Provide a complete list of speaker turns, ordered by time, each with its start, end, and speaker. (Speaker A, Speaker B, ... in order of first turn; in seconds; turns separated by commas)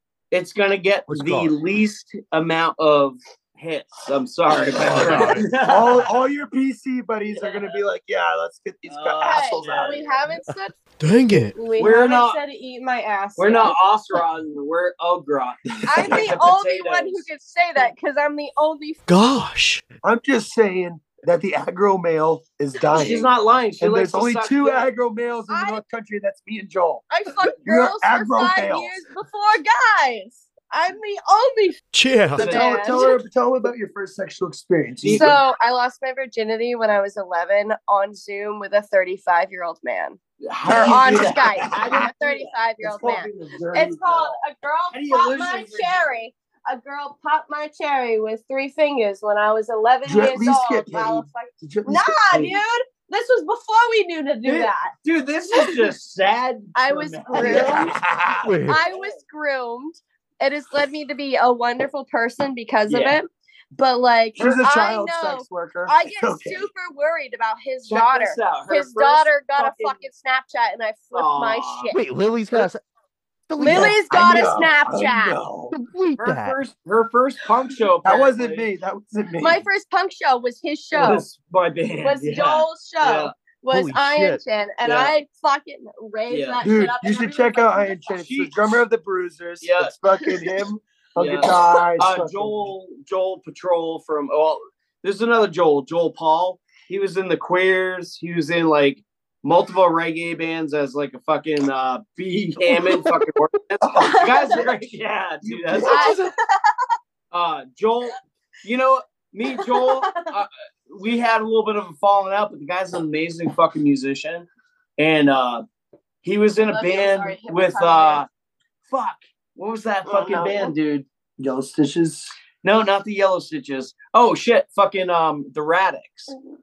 Speaker A: 0.3-6.1, Speaker B: 1.1-1.5, Speaker B: 4.8-5.5, Speaker C: 4.9-10.1, Speaker A: 8.9-10.2, Speaker D: 9.2-10.8, Speaker B: 11.0-11.6, Speaker D: 11.5-13.8, Speaker A: 11.8-12.4, Speaker A: 13.4-17.2, Speaker C: 15.8-16.3, Speaker D: 15.8-19.0, Speaker B: 19.1-19.8, Speaker C: 20.0-27.1, Speaker A: 22.9-24.9, Speaker D: 25.5-25.8, Speaker D: 27.1-31.8, Speaker C: 27.6-28.9, Speaker B: 31.9-32.5, Speaker A: 32.3-32.7, Speaker D: 32.4-33.2, Speaker C: 32.4-35.4, Speaker A: 35.0-35.4, Speaker D: 35.1-40.2, Speaker A: 40.4-44.1, Speaker C: 40.6-42.1, Speaker D: 40.7-54.9, Speaker C: 42.8-44.2, Speaker A: 44.9-46.2, Speaker C: 50.0-52.6, Speaker A: 54.4-57.9, Speaker D: 55.5-55.9, Speaker D: 56.7-58.0, Speaker C: 57.3-58.5, Speaker B: 58.4-58.8, Speaker D: 58.7-72.0, Speaker A: 62.9-63.2, Speaker C: 64.3-66.7, Speaker A: 67.9-70.0, Speaker A: 71.1-71.9, Speaker B: 71.9-72.8, Speaker B: 73.5-74.0, Speaker D: 73.6-75.4, Speaker C: 73.6-75.7, Speaker B: 75.7-76.6, Speaker A: 76.2-78.7, Speaker C: 78.0-79.6, Speaker D: 79.4-81.2, Speaker A: 80.9-83.3, Speaker D: 82.0-88.1, Speaker B: 83.7-84.4, Speaker A: 84.8-85.1, Speaker A: 86.3-86.6, Speaker C: 86.6-92.7, Speaker A: 88.2-88.5, Speaker A: 89.6-89.9, Speaker A: 91.2-106.2, Speaker C: 103.8-104.8, Speaker D: 103.9-104.6, Speaker C: 105.4-106.3, Speaker D: 105.8-106.8, Speaker A: 107.3-114.5, Speaker D: 109.5-110.3, Speaker A: 115.0-115.6, Speaker A: 116.2-118.3, Speaker D: 116.6-118.2, Speaker A: 118.9-121.0, Speaker C: 121.4-122.3, Speaker A: 122.6-126.3